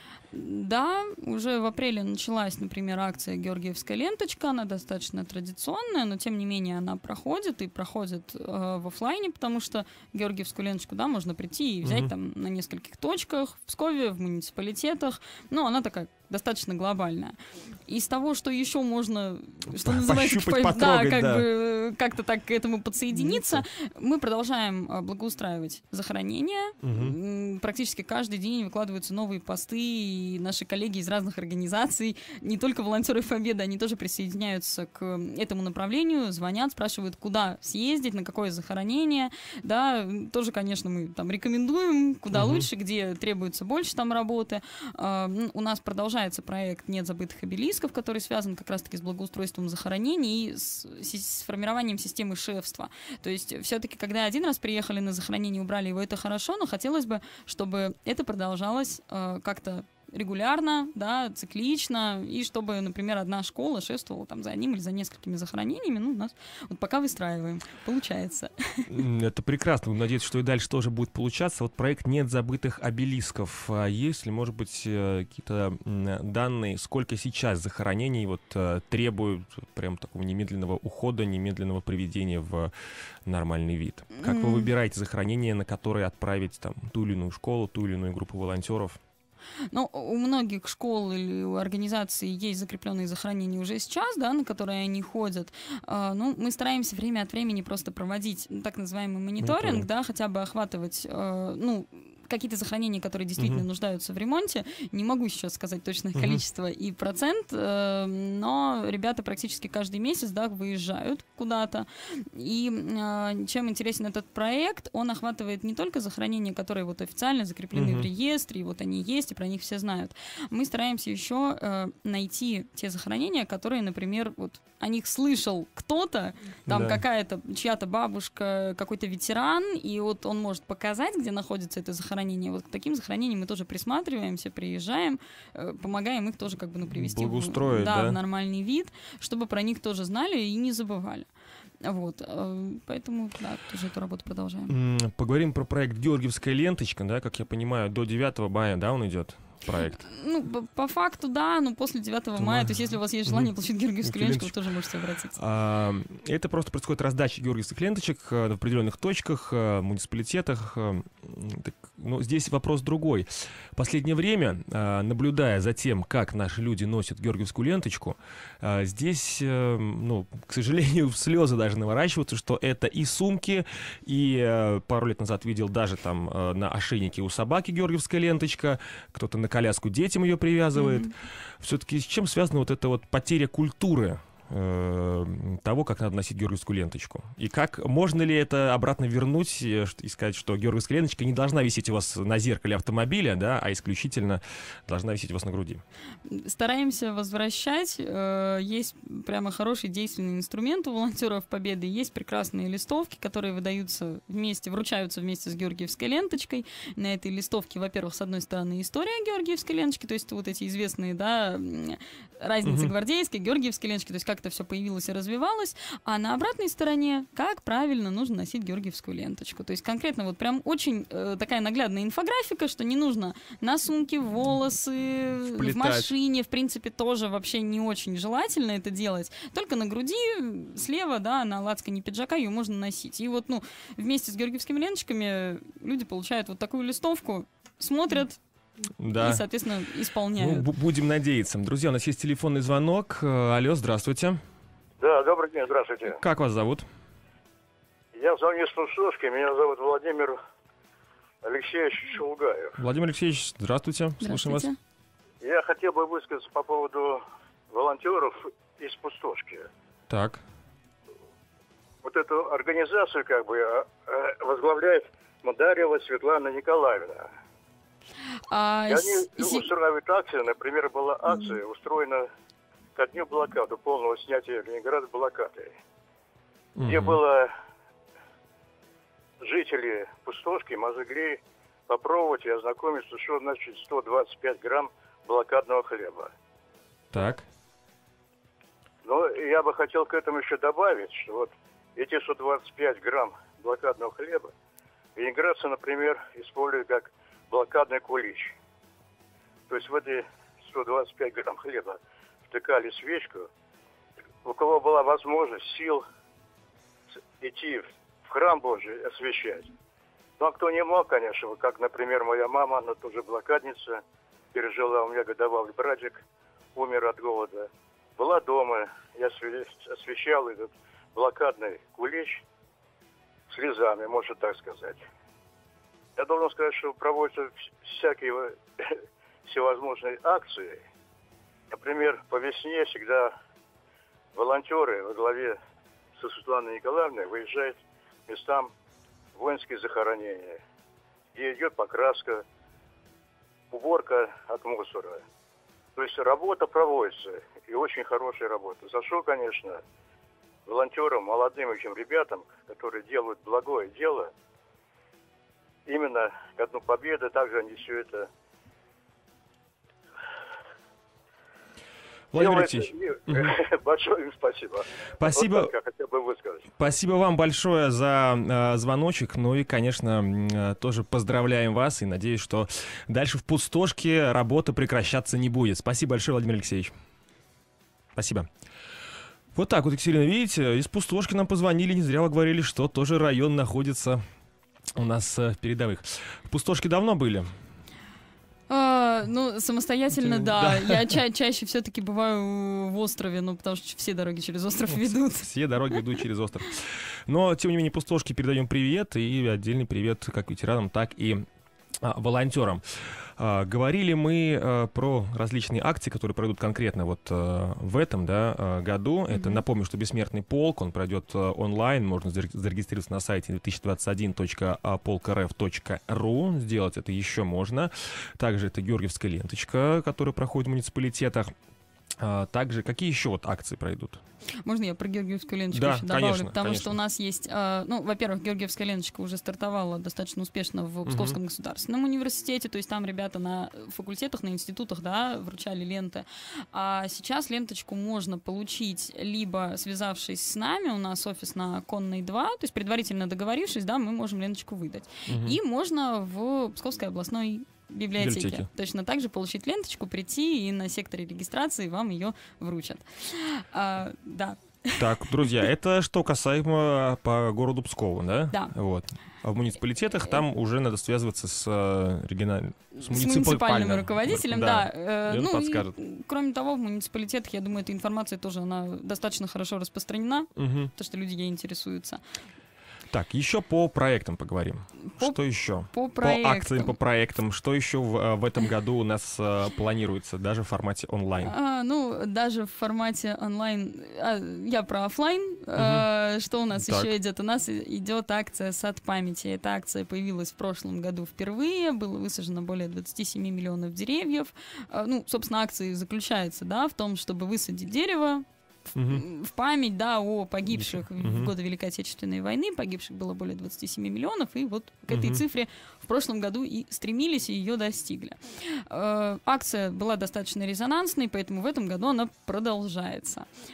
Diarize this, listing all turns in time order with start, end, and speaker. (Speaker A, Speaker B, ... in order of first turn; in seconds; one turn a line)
Speaker A: 0.3-17.4
Speaker B: 11.8-12.1
Speaker A: 17.9-68.9
Speaker B: 19.7-21.5
Speaker B: 23.1-23.6
Speaker B: 26.8-27.2
Speaker B: 42.3-42.7
Speaker B: 68.9-82.7
Speaker B: 83.2-89.0
Speaker A: 84.2-84.7
Speaker A: 89.7-141.3
Speaker B: 99.4-99.9
Speaker B: 103.4-103.6
Speaker B: 106.2-106.4
Speaker B: 117.7-118.1
Speaker B: 126.7-127.0
Speaker B: 136.9-138.2
Speaker A: 141.8-144.7
Speaker B: 144.7-150.0
Speaker A: 150.0-155.4
Speaker B: 152.4-153.5
Speaker B: 154.0-154.5
Speaker B: 155.4-195.8
Speaker A: 180.8-181.1
Speaker A: 196.3-238.4
Speaker B: 212.7-212.9
Speaker B: 225.5-226.1
Speaker B: 239.0-239.4
Speaker A: 239.1-240.7
Speaker B: 240.4-244.4
Speaker C: 245.0-246.2
Speaker B: 246.1-246.9
Speaker C: 248.1-250.4
Speaker C: 251.4-252.8
Speaker B: 252.8-254.7
Speaker A: 254.2-254.8
Speaker C: 255.4-259.7
Speaker B: 260.1-260.4
Speaker C: 262.0-267.3
Speaker A: 268.5-269.7
Speaker C: 268.9-272.3
Speaker C: 273.0-275.7
Speaker B: 276.8-277.2
Speaker C: 276.9-277.5
Speaker C: 279.4-286.3
Speaker B: 287.1-287.5
Speaker C: 289.0-294.5
Speaker C: 295.2-298.5
Speaker C: 299.7-303.5
Speaker C: 304.4-306.0
Speaker C: 307.4-309.7
Speaker C: 310.4-314.0
Speaker C: 314.5-316.2
Speaker C: 316.8-322.4
Speaker C: 323.5-325.0
Speaker C: 326.2-328.9
Speaker C: 329.5-330.8
Speaker C: 331.7-333.3
Speaker C: 334.4-335.6
Speaker C: 336.2-337.8
Speaker C: 338.3-338.7
Speaker C: 339.4-340.6
Speaker C: 341.4-342.4
Speaker C: 343.7-345.2
Speaker C: 346.0-349.8
Speaker C: 350.7-354.3
Speaker C: 355.9-358.3
Speaker B: 362.3-363.5
Speaker C: 362.4-366.7
Speaker B: 365.2-365.7
Speaker B: 366.8-376.9
Speaker B: 378.1-378.5
Speaker B: 379.6-384.2
Speaker B: 384.9-387.5
Speaker A: 388.7-395.9
Speaker B: 390.2-391.1
Speaker B: 394.9-401.4
Speaker B: 402.0-421.5
Speaker A: 409.3-409.6
Speaker B: 422.2-424.2
Speaker A: 424.6-455.3
Speaker B: 425.7-427.0
Speaker B: 431.1-431.4
Speaker B: 445.3-445.6
Speaker B: 448.2-448.7
Speaker B: 455.0-465.9
Speaker A: 463.0-472.2
Speaker B: 470.6-470.9
Speaker B: 473.1-481.5
Speaker A: 475.1-477.0
Speaker A: 481.4-498.4
Speaker B: 485.8-486.1
Speaker B: 486.8-487.1
Speaker B: 498.9-499.2
Speaker A: 499.1-513.5
Speaker B: 500.8-501.5
Speaker B: 505.1-505.4